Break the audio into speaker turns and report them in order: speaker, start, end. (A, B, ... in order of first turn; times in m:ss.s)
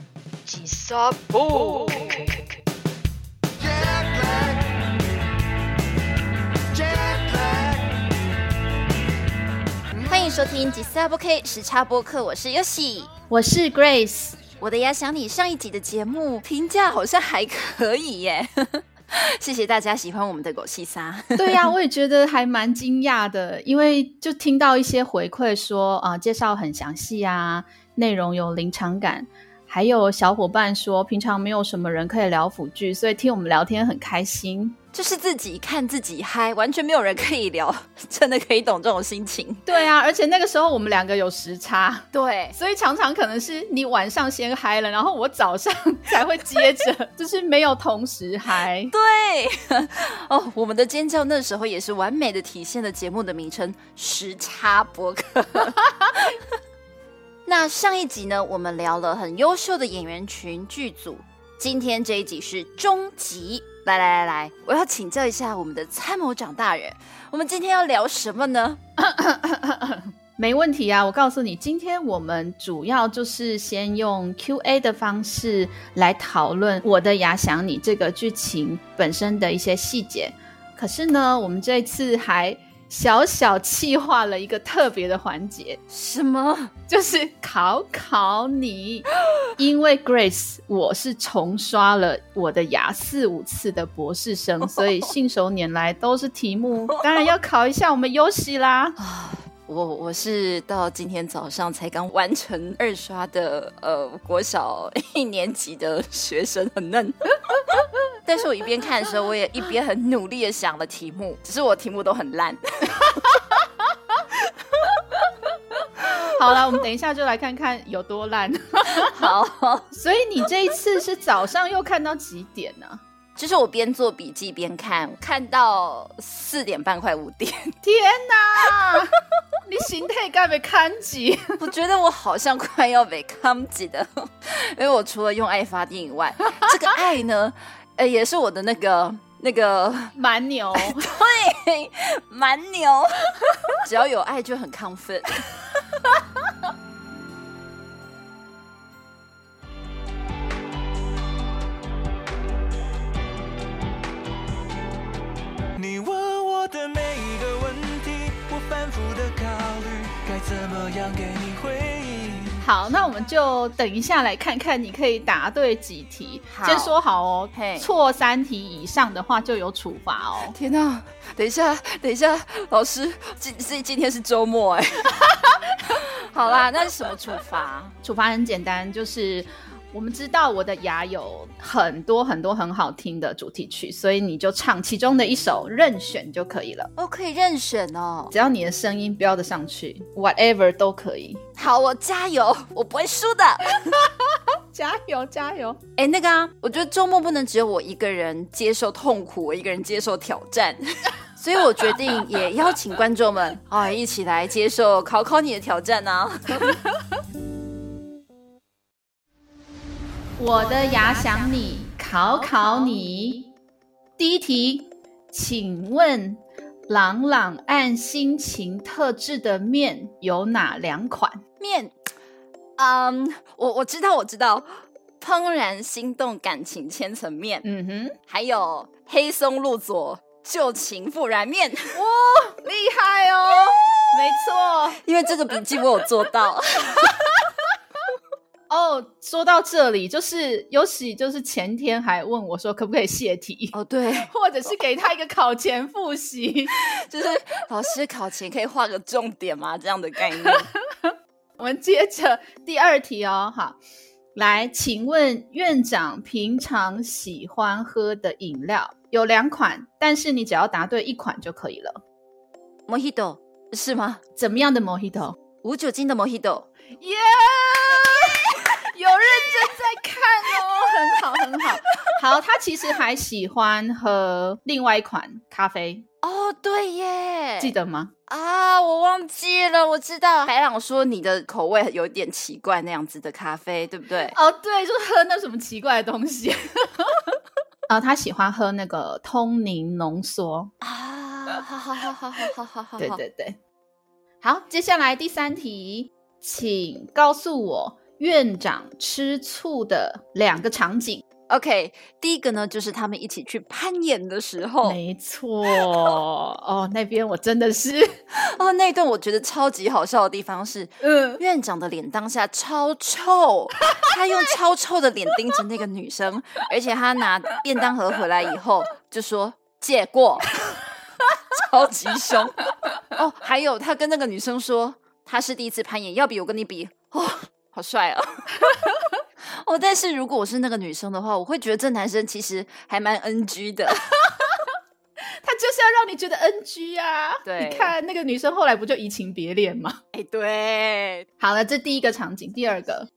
0:00.4-0:02.6 A
0:09.9-0:13.1 B
0:13.3-0:14.4 C
0:14.6-0:21.7 B
0:21.4-0:34.8 C
0:34.9-0:39.6 B
0:39.6-0:48.9 C
0:42.1-0:42.6 B
0:48.9-0:56.4 B
0:57.4-1:08.8 B
1:09.0-1:25.8 C
1:25.9-1:26.7 B
1:26.9-1:39.0 C
1:39.0-1:47.2 B
1:48.2-1:53.2 B
1:56.3-1:59.3 C
1:59.0-1:59.9 B
1:59.9-2:03.0 C
2:03.4-2:07.7 B
2:07.8-2:09.1 C
2:08.6-2:09.0 B
2:09.6-2:11.6 C
2:11.6-2:20.1 B
2:20.1-2:21.0 C
2:20.8-2:25.4 B
2:35.8-2:42.6 D
2:42.6-2:50.5 C
2:46.5-2:46.9 B
2:47.5-2:47.9 B
2:50.5-2:55.1 B
2:55.2-2:55.8 C
2:55.9-2:57.9 B
2:58.0-3:06.9 C
3:07.0-3:08.3 B
3:08.3-3:11.4 C
3:11.6-3:14.0 B
3:14.3-3:15.8 C
3:16.0-3:20.8 B
3:21.3-3:26.7 B
3:30.4-3:33.5 C
3:34.2-3:41.4 C
3:41.6-3:41.9 B
3:42.8-3:47.6 B
3:47.6-3:48.2 C
3:48.3-3:52.0 B
3:51.9-3:55.0 C
3:55.0-3:57.1 B
3:58.7-4:03.7 C
4:03.7-4:04.3 B
4:04.3-4:06.7 C
4:06.8-4:10.7 B
4:10.4-4:13.8 C
4:14.3-4:22.0 C
4:22.9-4:24.2 B
4:24.4-4:25.4 C
4:25.6-4:26.7 B
4:27.0-4:36.0 C
4:36.2-4:37.7 B
4:37.6-4:38.1 C
4:38.3-4:44.4 B
4:44.3-4:47.4 C
4:47.9-4:50.7 C
4:50.8-4:53.2 B
4:53.0-4:53.6 C
4:54.4-5:01.2 C
5:01.5-5:05.0 B
5:04.8-5:08.2 C
5:08.3-5:20.6 B
5:11.0-5:11.4 C
5:21.5-5:28.5 B
5:28.6-5:29.0 C
5:29.4-5:34.1 B
5:34.2-5:34.7 C
5:35.3-5:40.0 C
5:37.4-5:37.9 B
5:40.1-5:41.3 B
5:41.4-5:43.1 C